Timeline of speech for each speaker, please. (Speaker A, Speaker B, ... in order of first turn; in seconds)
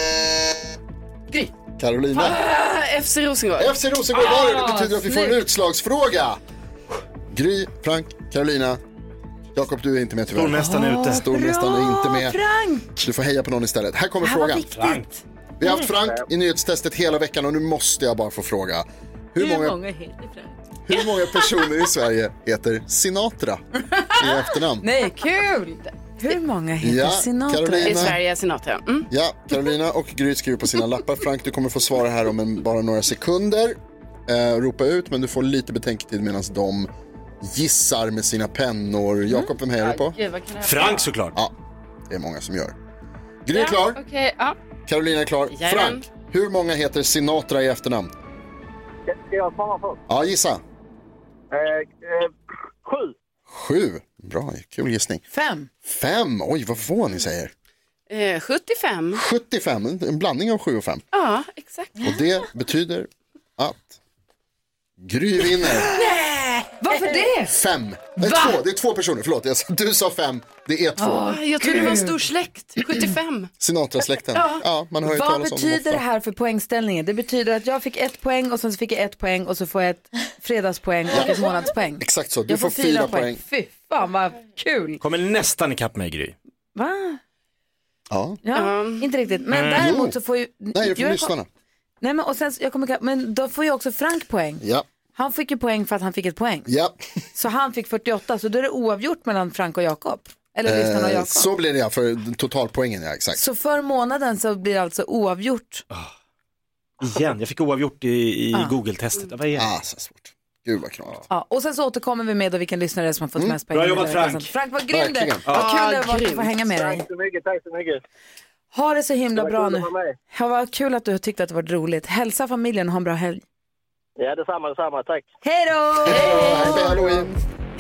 Speaker A: 1.8-2.4, 3.6-6.4, 7.3-8.8, 9.6-12.4, 13.0-14.7, 15.6-19.8, 20.9-24.9, 26.8-28.2, 29.1-36.9, 37.4-40.2, 42.1-42.8, 43.5-44.0, 44.9-48.1, 50.1-50.6, 53.5-55.2, 55.9-57.5, 59.1-61.0, 62.0-64.0, 65.0-66.0, 67.5-71.4, 73.6-76.0, 81.1-81.4, 82.0-83.4, 88.1-88.4, 89.8-90.2, 90.7-91.5, 94.6-94.9, 96.7-97.0, 100.7-103.4, 109.5-111.2, 114.9-115.5, 126.0-127.3
Speaker B: 2.1-3.8, 27.8-29.1, 39.8-41.1, 43.5-44.6, 45.5-46.0, 58.1-59.2, 61.1-62.1, 65.9-67.1, 71.2-73.5, 74.3-74.6, 88.5-89.1, 115.5-116.5
Speaker C: 4.1-5.4, 10.6-13.1, 14.2-15.2, 19.4-20.5, 24.8-28.2, 55.3-55.7, 66.8-67.5, 68.2-68.6, 71.0-72.2, 75.0-85.0, 86.8-87.2, 88.4-91.3, 92.0-94.6, 95.1-96.7, 97.3-101.5, 103.3-105.8, 111.3-117.1, 118.7-123.4, 125.4-127.1
Speaker D: 10.3-11.3, 14.7-15.1, 40.6-41.4, 85.0-86.3, 89.5-89.9, 107.0-109.7, 113.7-114.5
Speaker E: 49.1-50.0, 51.5-52.3, 52.8-53.1, 116.7-118.0, 119.3-120.2, 124.2-125.2, 126.8-127.1